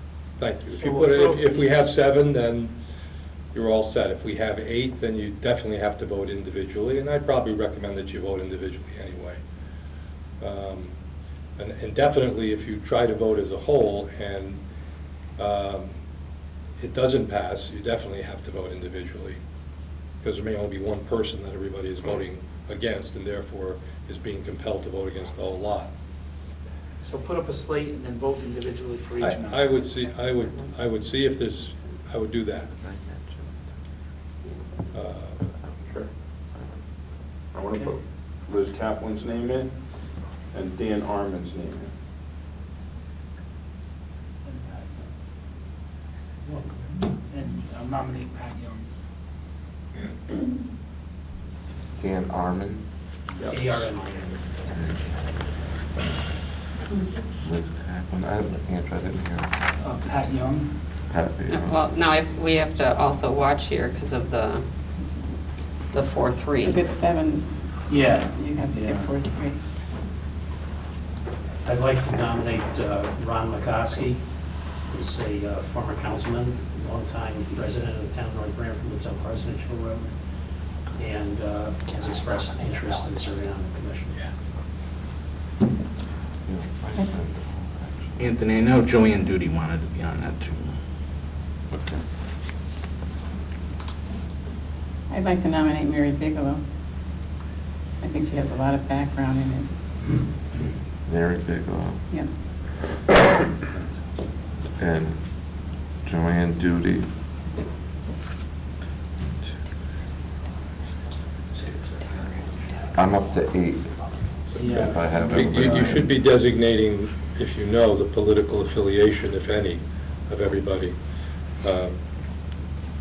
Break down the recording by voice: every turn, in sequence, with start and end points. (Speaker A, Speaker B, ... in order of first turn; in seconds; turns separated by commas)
Speaker A: 0.4-2.8, Speaker B: 0.8-1.8, Speaker A: 3.5-9.4, Speaker A: 10.4-10.9, Speaker A: 11.6-14.6, Speaker A: 15.4-16.0, Speaker A: 16.8-19.4, Speaker A: 20.2-25.9, Speaker B: 27.0-29.9, Speaker A: 29.2-32.7, Speaker C: 30.3-30.7, Speaker D: 32.7-33.6, Speaker C: 34.4-34.7, Speaker A: 34.9-35.4, Speaker D: 36.5-36.8, Speaker E: 37.5-39.8, Speaker E: 40.5-41.9, Speaker B: 44.5-45.1, Speaker B: 46.5-49.0, Speaker D: 52.0-52.9, Speaker E: 53.4-53.7, Speaker F: 53.5-54.4, Speaker D: 54.7-55.2, Speaker D: 57.4-59.5, Speaker B: 59.8-60.7, Speaker D: 61.1-61.9, Speaker C: 61.5-64.7, Speaker C: 65.9-66.8, Speaker G: 66.6-67.5, Speaker B: 67.9-69.2, Speaker G: 68.3-69.6, Speaker F: 71.6-74.2, Speaker F: 74.9-80.2, Speaker F: 80.9-84.3, Speaker B: 81.9-83.3, Speaker D: 86.5-88.2, Speaker H: 88.2-90.7, Speaker D: 91.7-92.0, Speaker G: 95.1-96.6, Speaker G: 98.0-99.7, Speaker D: 101.0-102.0, Speaker D: 104.8-107.1, Speaker F: 111.5-113.1, Speaker D: 112.9-116.1, Speaker A: 114.5-121.0, Speaker B: 114.5-116.1, Speaker A: 121.5-122.0